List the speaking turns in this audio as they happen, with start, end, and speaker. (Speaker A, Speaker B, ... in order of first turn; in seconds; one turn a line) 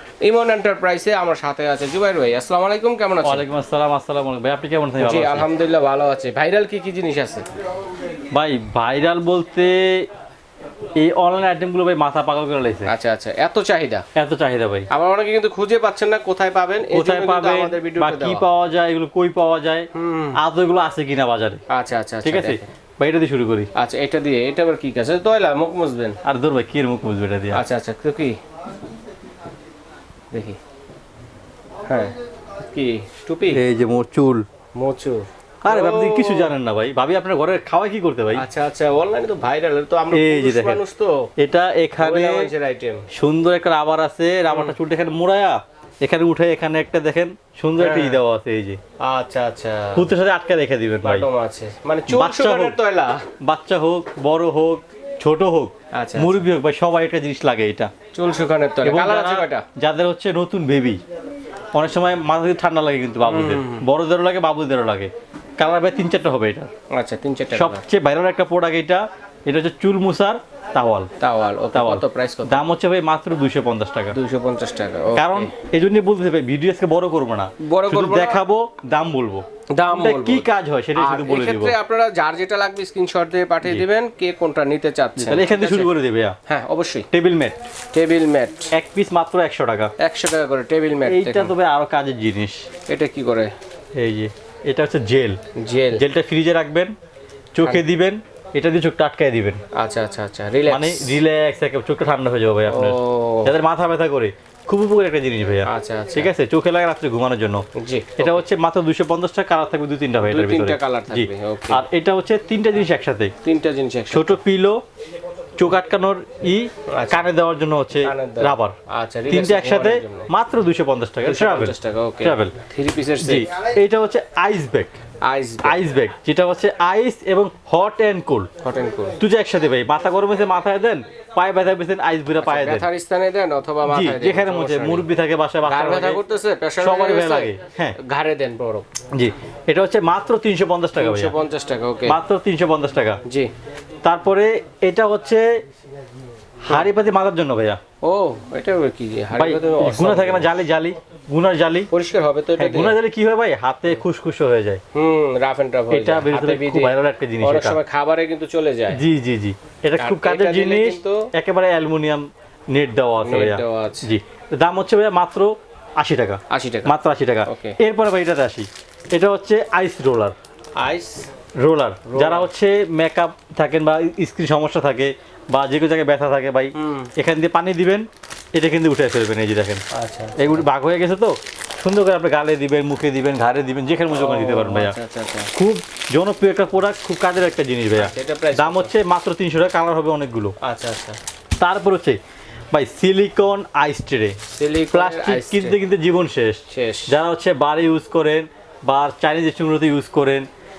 Speaker A: 0.2-3.5
Speaker B: 3.2-5.5
Speaker A: 5.0-7.5
Speaker B: 8.3-10.1
Speaker B: 11.0-12.9
Speaker A: 12.8-14.0
Speaker B: 14.2-14.9
Speaker A: 14.9-18.4
Speaker B: 16.9-21.6
Speaker A: 19.9-20.4
Speaker A: 21.7-22.7
Speaker B: 22.2-23.7
Speaker A: 23.7-26.2
Speaker B: 26.2-27.6
Speaker A: 27.5-28.4
Speaker A: 30.3-30.6
Speaker A: 31.9-33.6
Speaker B: 33.5-34.4
Speaker A: 34.8-36.5
Speaker B: 35.6-38.4
Speaker A: 38.3-41.3
Speaker B: 40.1-40.8
Speaker B: 41.4-42.5
Speaker A: 42.0-43.0
Speaker B: 43.1-48.8
Speaker A: 44.5-44.8
Speaker A: 47.8-48.2
Speaker A: 49.0-50.1
Speaker B: 50.0-51.3
Speaker A: 51.0-53.2
Speaker B: 52.1-52.8
Speaker B: 53.4-57.9
Speaker A: 55.9-56.5
Speaker A: 58.1-59.6
Speaker B: 58.8-61.0
Speaker B: 61.8-66.7
Speaker A: 63.2-63.8
Speaker A: 66.9-67.8
Speaker B: 67.5-71.1
Speaker A: 71.2-72.6
Speaker B: 71.7-74.2
Speaker A: 74.1-75.5
Speaker B: 75.1-81.8
Speaker A: 77.6-78.4
Speaker A: 79.8-85.9
Speaker B: 85.2-86.4
Speaker A: 86.5-87.1
Speaker B: 87.1-87.6
Speaker A: 87.9-88.7
Speaker B: 88.7-89.9
Speaker A: 90.0-91.5
Speaker B: 91.0-92.6
Speaker A: 92.9-93.5
Speaker B: 94.0-95.4
Speaker A: 95.5-96.0
Speaker B: 95.9-96.9
Speaker B: 97.5-99.6
Speaker A: 99.8-101.2
Speaker B: 100.7-107.6
Speaker A: 102.7-103.5
Speaker A: 105.6-106.3
Speaker A: 107.8-108.4
Speaker B: 108.2-113.3
Speaker A: 110.2-111.8
Speaker A: 113.4-114.4
Speaker B: 114.1-114.8
Speaker B: 115.6-118.8
Speaker A: 116.9-117.3
Speaker A: 118.0-120.3
Speaker B: 119.3-122.5
Speaker A: 121.2-123.5
Speaker B: 123.2-124.9
Speaker A: 125.2-125.8
Speaker B: 125.6-128.5
Speaker A: 128.6-129.2
Speaker B: 129.2-132.9
Speaker A: 132.4-135.0
Speaker B: 133.9-136.2
Speaker A: 135.7-138.9
Speaker B: 136.8-137.9
Speaker B: 139.1-141.3
Speaker A: 140.9-142.2
Speaker B: 142.1-143.2
Speaker A: 143.2-143.5
Speaker B: 144.0-145.6
Speaker B: 146.7-147.8
Speaker A: 148.0-150.5
Speaker B: 149.3-151.9
Speaker A: 151.9-153.0
Speaker B: 152.6-154.8
Speaker A: 154.9-159.0
Speaker B: 155.9-157.8
Speaker B: 158.9-170.3
Speaker A: 160.0-161.3
Speaker A: 163.2-164.1
Speaker A: 166.5-166.9
Speaker A: 167.4-167.8
Speaker A: 170.8-171.3
Speaker B: 171.6-179.8
Speaker A: 172.1-172.5
Speaker A: 176.8-177.1
Speaker A: 179.9-180.7
Speaker B: 180.4-184.9
Speaker A: 184.1-185.5
Speaker B: 185.5-190.5
Speaker A: 188.0-188.9
Speaker A: 190.6-191.2
Speaker B: 191.6-192.2
Speaker B: 192.7-194.4
Speaker A: 194.5-195.8
Speaker B: 194.9-200.5
Speaker A: 196.7-197.2